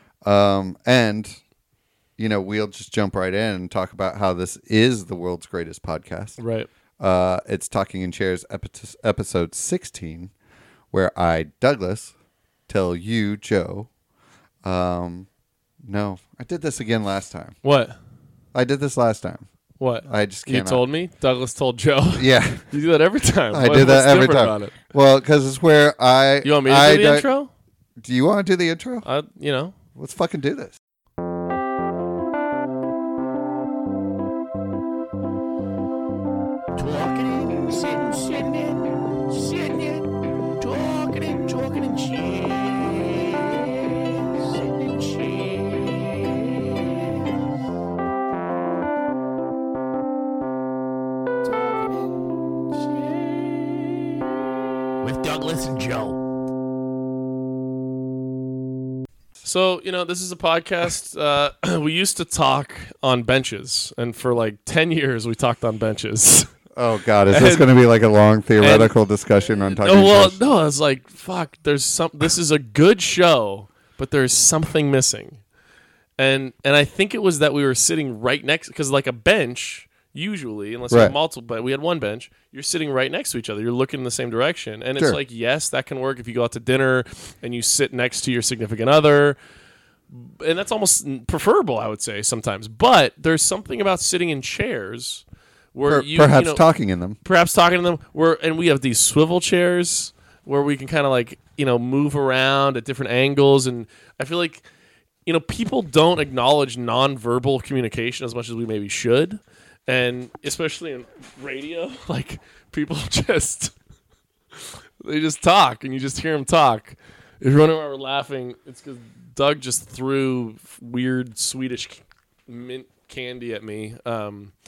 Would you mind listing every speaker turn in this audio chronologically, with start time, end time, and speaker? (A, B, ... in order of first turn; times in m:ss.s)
0:00.2-0:01.4 A
0:02.2-0:06.4 A
0:06.4-0:06.7 B
0:07.0-0:10.3 A
0:10.9-0:12.1 A
0:12.7-0:13.9 A
0:14.6-0:15.3 A
0:15.8-0:17.6 A
0:17.6-0:17.9 B
0:18.5-0:19.4 A
0:19.8-0:24.8 B
0:20.0-0:20.8 A
0:22.2-0:22.7 A
0:23.5-0:27.3 A
0:26.4-0:27.5 B
0:28.0-0:29.0 A
0:29.0-0:29.7 B
0:29.9-0:30.7 A
0:36.8-0:38.1 C
0:36.8-0:38.8 B
0:39.4-0:39.8 B
0:40.6-0:43.0 B
0:40.7-0:42.8 C
0:45.1-0:45.4 B
0:55.1-0:56.1 C
0:55.3-0:55.9 B
0:59.4-1:06.5 B
1:06.7-1:10.4 A
1:07.3-1:07.7 B
1:08.6-1:08.9 B
1:09.6-1:15.4 B
1:16.2-1:29.4 B
1:20.9-1:21.1 A
1:30.1-1:36.6 B
1:35.8-1:37.2 A
1:37.2-1:44.6 B
1:45.2-1:53.7 B
1:54.6-2:04.5 B